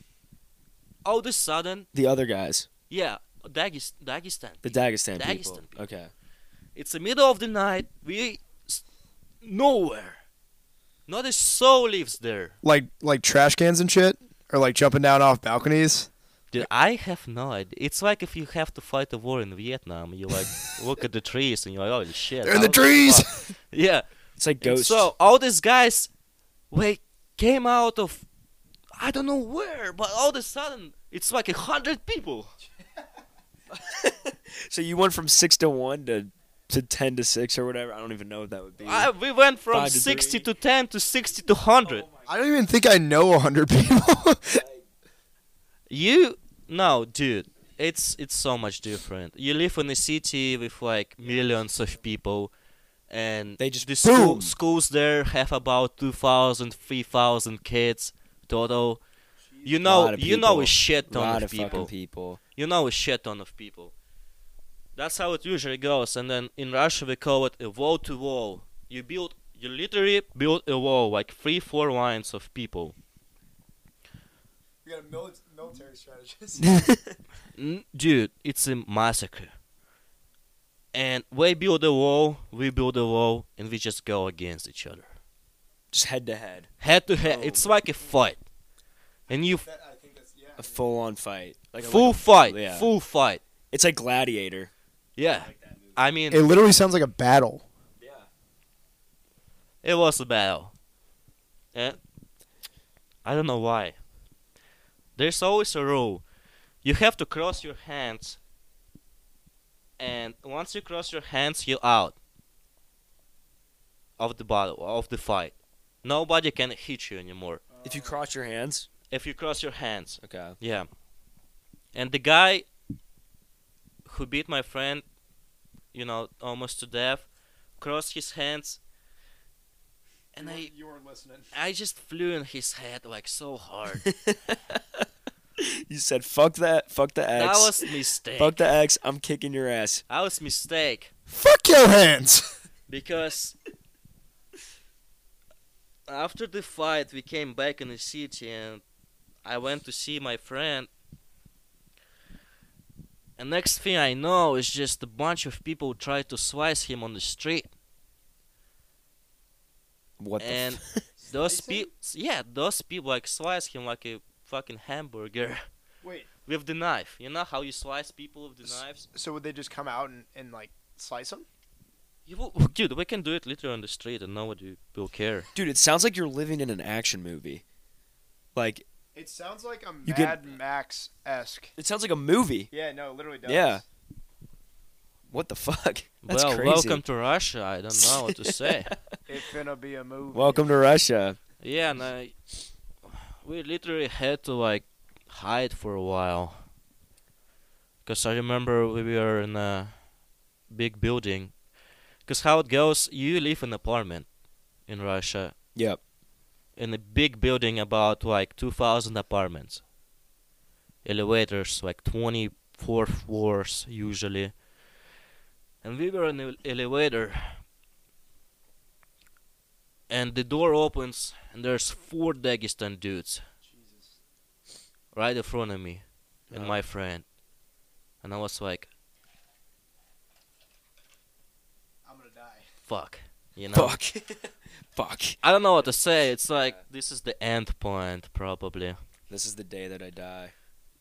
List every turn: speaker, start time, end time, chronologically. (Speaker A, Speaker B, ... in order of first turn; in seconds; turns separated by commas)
Speaker A: 1.1-1.9, Speaker B: 1.9-2.7, Speaker A: 2.9-5.8, Speaker B: 4.6-6.1, Speaker A: 6.8-8.8, Speaker A: 9.4-10.2, Speaker A: 11.1-12.5, Speaker C: 12.6-16.1, Speaker A: 16.5-24.0, Speaker C: 22.4-23.5, Speaker B: 24.4-25.1, Speaker A: 24.6-26.1, Speaker A: 26.7-28.2, Speaker A: 29.0-32.5, Speaker C: 32.8-33.1, Speaker B: 33.7-39.1, Speaker A: 38.8-42.1, Speaker B: 39.7-40.5, Speaker B: 41.8-42.4, Speaker C: 42.3-44.6, Speaker B: 44.5-44.9, Speaker A: 45.9-52.5, Speaker C: 51.2-52.0, Speaker A: 53.1-59.0, Speaker B: 53.6-54.6, Speaker C: 59.4-59.9, Speaker A: 59.6-61.9, Speaker B: 59.8-62.4, Speaker C: 61.6-61.9, Speaker A: 62.6-63.9, Speaker A: 65.0-73.0, Speaker C: 74.8-76.7, Speaker B: 76.6-77.1, Speaker A: 77.5-79.5, Speaker A: 80.9-85.1, Speaker B: 85.9-87.7, Speaker A: 86.8-88.4, Speaker A: 89.3-89.7, Speaker C: 89.6-90.8, Speaker B: 90.6-92.9, Speaker A: 91.8-93.4, Speaker B: 93.7-94.7, Speaker A: 95.2-96.5, Speaker B: 95.3-96.0, Speaker C: 96.3-97.6, Speaker B: 98.0-98.3, Speaker A: 99.8-100.7, Speaker A: 103.2-104.0, Speaker A: 105.2-106.2, Speaker A: 106.8-108.4, Speaker A: 110.0-112.2, Speaker A: 114.2-117.6, Speaker C: 117.7-118.2, Speaker B: 117.8-118.9, Speaker A: 119.1-120.9, Speaker B: 120.2-120.6, Speaker A: 121.9-122.7, Speaker A: 124.1-125.0, Speaker A: 125.9-127.3, Speaker A: 127.8-128.8, Speaker A: 130.3-130.7, Speaker C: 130.4-131.5, Speaker A: 131.5-134.1, Speaker B: 134.0-135.1, Speaker B: 135.6-140.0, Speaker A: 137.3-138.7, Speaker A: 140.1-141.1, Speaker C: 141.3-142.6, Speaker A: 142.9-143.6, Speaker A: 146.1-148.8, Speaker A: 149.4-150.9, Speaker A: 153.4-157.7, Speaker B: 160.2-161.0, Speaker A: 160.4-165.6, Speaker C: 161.4-161.9, Speaker C: 166.0-166.3, Speaker A: 166.5-169.1, Speaker C: 169.1-171.5, Speaker A: 172.3-175.5, Speaker B: 175.6-177.6, Speaker B: 178.6-178.9, Speaker C: 179.1-181.7, Speaker B: 180.1-180.4, Speaker B: 181.8-182.7, Speaker C: 182.7-183.8, Speaker B: 183.5-183.8, Speaker B: 185.3-187.0, Speaker A: 186.2-188.9, Speaker B: 187.9-189.2, Speaker C: 189.3-190.7, Speaker B: 190.3-191.4, Speaker A: 191.6-192.3, Speaker A: 193.1-196.6, Speaker A: 198.1-199.9, Speaker A: 200.7-201.6, Speaker A: 202.2-204.3, Speaker A: 204.9-205.5, Speaker B: 205.8-206.0, Speaker A: 206.8-209.8, Speaker A: 211.0-214.5, Speaker A: 215.8-217.6, Speaker A: 220.1-223.4, Speaker C: 223.6-224.2, Speaker A: 225.1-227.2, Speaker B: 226.5-226.8, Speaker A: 228.2-228.9, Speaker C: 232.1-232.7, Speaker A: 232.9-233.9, Speaker B: 233.7-235.4, Speaker A: 235.4-239.0, Speaker B: 239.3-240.5